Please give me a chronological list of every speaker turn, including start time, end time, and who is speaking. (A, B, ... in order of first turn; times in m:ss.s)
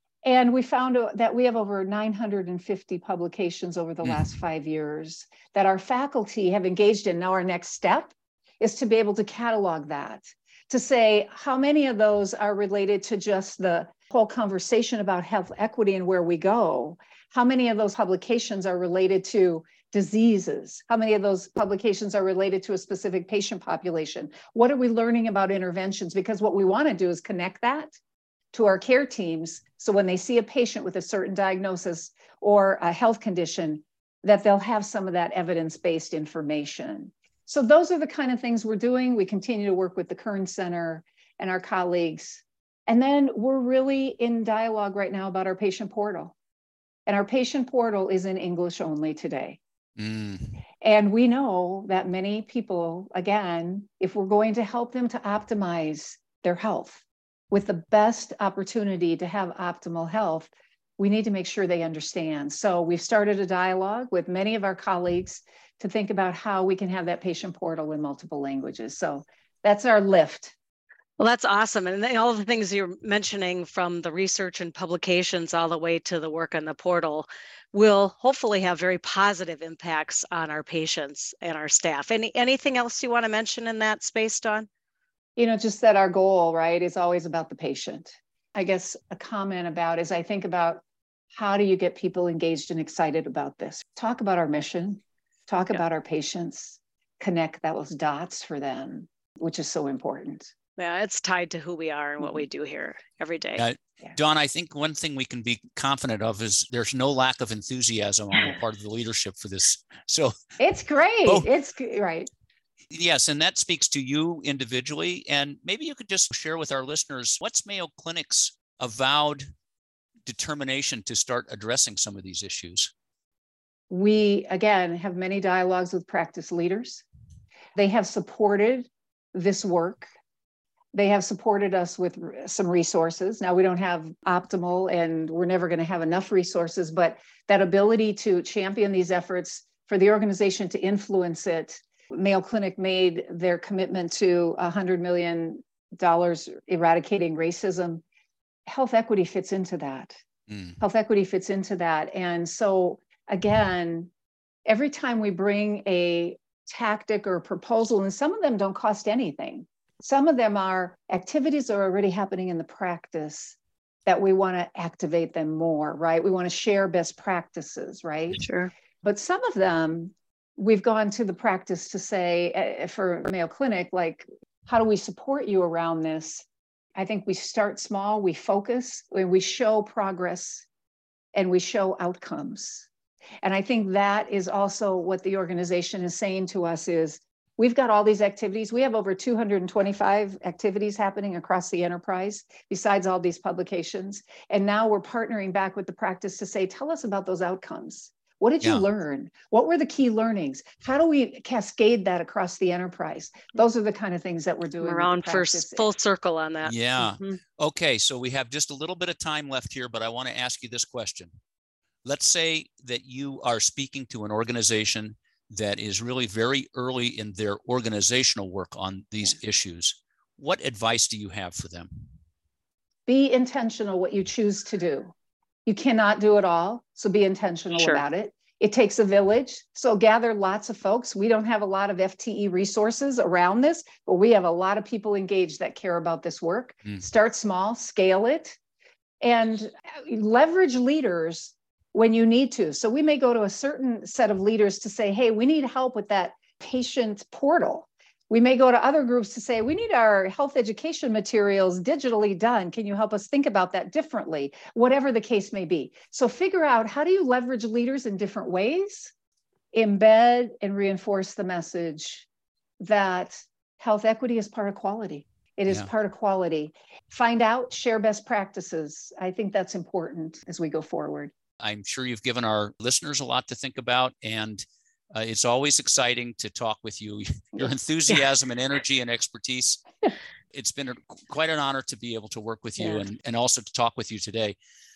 0:00.2-0:28.0 A
0:28.5-0:46.4 A
0:47.1-0:49.6 A
0:50.0-0:50.6 B
0:50.8-1:10.6 A
1:11.2-1:24.7 C
1:25.4-1:40.5 A
1:40.8-1:43.6 C
1:43.6-1:50.3 B
1:50.6-1:52.3 A
1:52.9-1:59.4 B
2:00.3-2:02.9 B
2:03.9-2:07.0 A
2:07.8-2:10.1 A
2:10.9-2:28.0 A
2:28.7-2:30.2 A
2:30.8-2:34.1 A
2:34.7-2:48.5 A
2:48.4-2:48.7 C
2:49.0-3:00.7 A
3:01.3-3:02.9 A
3:03.4-3:25.9 A
3:24.8-3:27.4 C
3:26.6-3:31.3 B
3:32.0-3:42.0 B
3:43.1-3:45.1 A
3:45.7-3:58.6 A
3:47.8-3:48.0 C
3:59.2-4:19.1 A
4:19.7-4:22.3 A
4:22.8-4:31.3 A
4:31.6-4:39.8 B
4:40.5-4:44.6 B